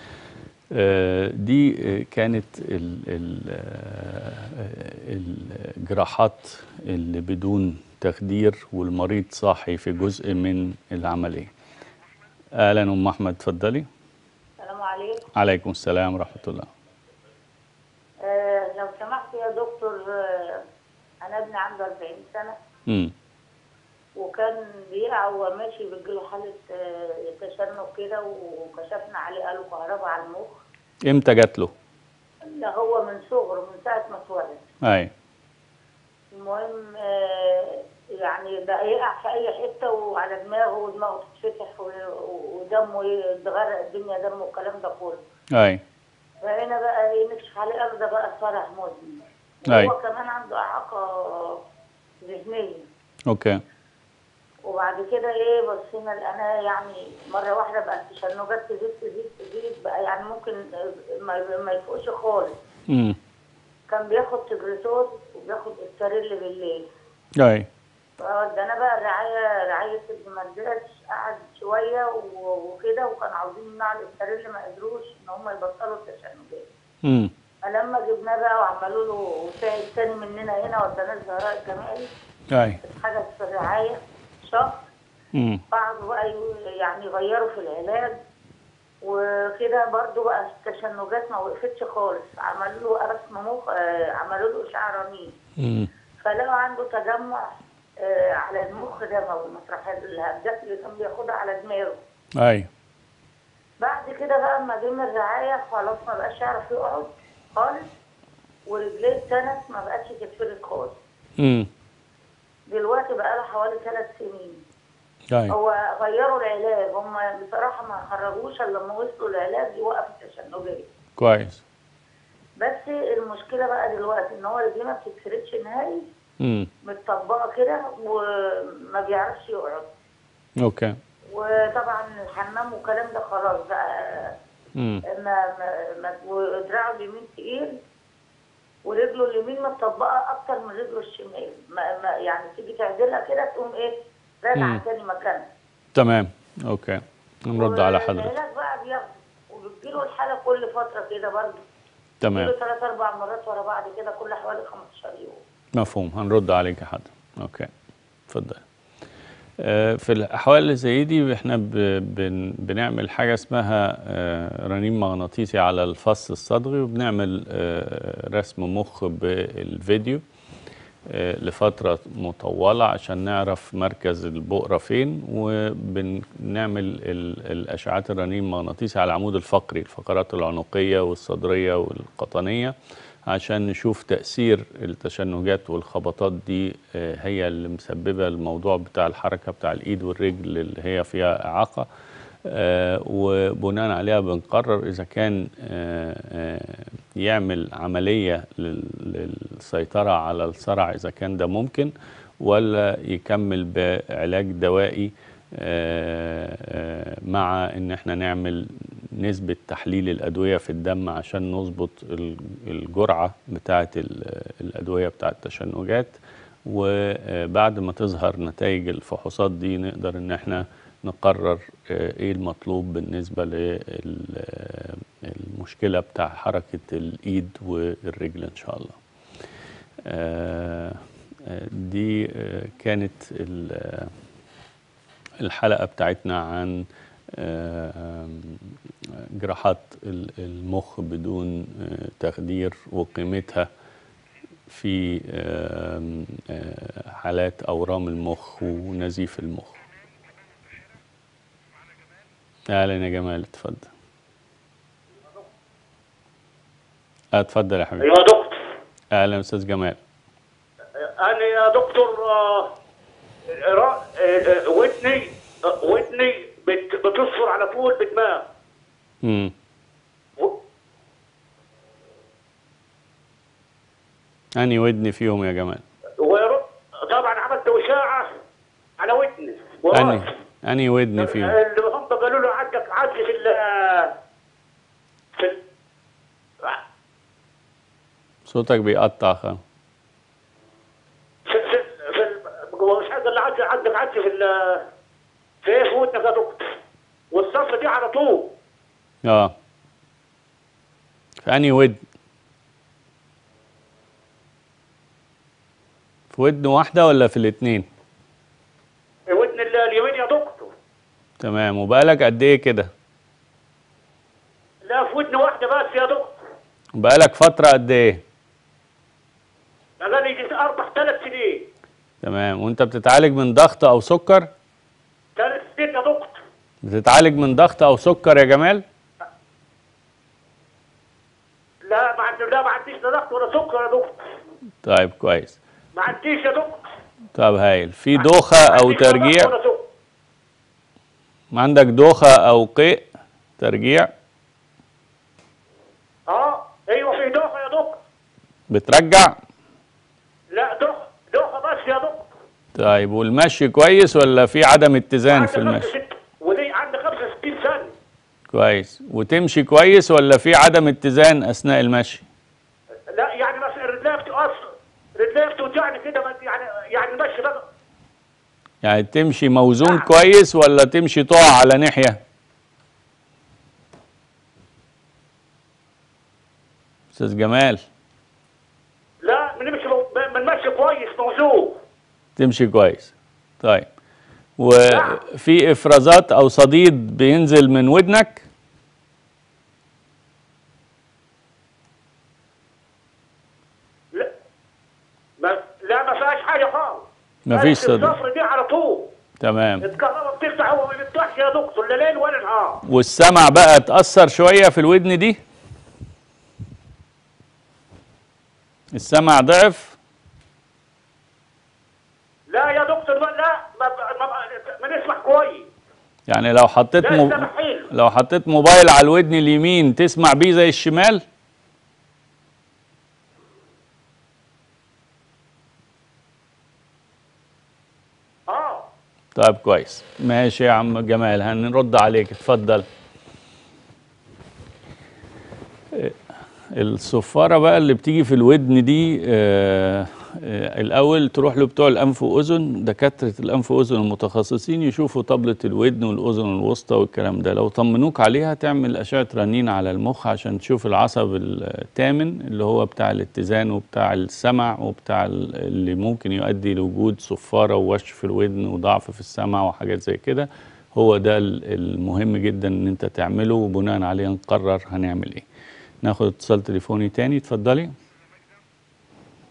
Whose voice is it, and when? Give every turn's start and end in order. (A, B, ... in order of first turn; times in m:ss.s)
0:00.7-0:11.5 A
0:12.6-0:13.9 A
0:14.6-0:15.2 B
0:15.4-0:16.7 A
0:18.2-0:20.6 B
0:21.2-0:22.6 B
0:24.2-0:30.6 B
0:31.1-0:31.7 A
0:32.4-0:34.6 B
0:34.8-0:35.1 A
0:36.3-0:45.2 B
0:45.6-0:45.8 A
0:46.4-0:51.6 B
0:52.2-0:52.8 B
0:53.3-0:53.6 A
0:54.6-1:00.6 B
1:01.2-1:02.6 B
1:02.9-1:03.2 A
1:03.9-1:06.8 B
1:07.4-1:07.7 A
1:08.2-1:16.7 B
1:17.0-1:17.3 A
1:17.6-1:22.1 B
1:22.5-1:22.8 A
1:22.8-1:24.8 B
1:25.3-1:25.6 A
1:25.7-1:28.1 B
1:29.0-1:35.3 B
1:35.6-1:35.9 A
1:36.2-1:42.0 B
1:42.4-1:42.7 A
1:43.8-1:47.8 B
1:48.6-1:51.0 B
1:51.4-1:51.7 A
1:52.7-1:54.6 B
1:55.5-2:00.8 B
2:01.2-2:01.6 A
2:02.6-2:06.0 B
2:06.4-2:06.7 A
2:06.8-2:09.9 B
2:10.6-2:11.0 A
2:11.3-2:14.4 B
2:14.8-2:15.0 A
2:15.1-2:17.8 B
2:18.8-2:25.5 B
2:24.6-2:24.8 A
2:25.9-2:28.3 A
2:27.5-2:31.6 B
2:32.2-2:32.5 A
2:32.3-2:35.4 B
2:35.8-2:37.7 A
2:38.3-2:38.6 A
2:39.6-2:50.2 A
2:51.1-3:02.7 A
3:03.3-3:11.9 A
3:12.4-3:49.0 A
3:50.0-3:54.1 A
3:55.4-3:56.8 A
3:57.4-3:58.6 A
3:59.4-4:03.7 A
4:04.7-4:09.8 A
4:12.7-4:13.9 A
4:17.3-4:18.1 A
4:18.0-4:18.6 C
4:19.1-4:20.0 A
4:21.0-4:22.7 C
4:23.6-4:28.4 C
4:29.2-4:29.5 A
4:34.6-4:35.8 A
4:36.2-4:38.3 C
4:39.0-4:40.3 C
4:39.9-4:41.5 A
4:41.2-4:44.1 C
4:48.5-4:49.6 A
4:51.5-4:54.8 C
4:55.6-4:56.8 C
4:57.3-4:58.5 C
4:59.2-4:59.5 A
5:01.4-5:02.0 A
5:06.3-5:07.9 A
5:09.3-5:10.7 C
5:11.4-5:12.9 A
5:14.8-5:16.4 C
5:17.0-5:18.2 A
5:20.0-5:21.6 C
5:22.2-5:24.5 A
5:25.4-5:26.4 C
5:26.8-5:28.8 A
5:31.8-5:34.2 C
5:34.8-5:35.6 A
5:35.9-5:36.8 C
5:37.3-5:39.5 A
5:38.2-5:39.8 C
5:41.5-5:43.0 A
5:43.6-5:44.1 A
5:46.3-5:48.0 C
5:48.7-5:49.4 A
5:50.5-5:52.3 C
5:52.7-5:55.9 A
5:55.3-5:57.9 C
5:58.5-6:02.2 A
6:03.1-6:07.6 C
6:08.8-6:12.2 A
6:17.1-6:17.8 A
6:19.2-6:21.8 C
6:22.4-6:23.9 A
6:24.6-6:28.4 A
6:24.9-6:25.2 C
6:35.4-6:39.1 C
6:37.5-6:38.2 A
6:39.4-6:39.8 A
6:39.8-6:42.8 C
6:42.8-6:45.4 A
6:48.9-6:50.0 A
6:52.5-6:55.7 C
6:56.3-7:01.2 A
6:57.0-6:57.9 C
7:08.5-7:08.9 C
7:09.4-7:12.8 A
7:16.7-7:45.4 A
7:46.0-7:47.9 A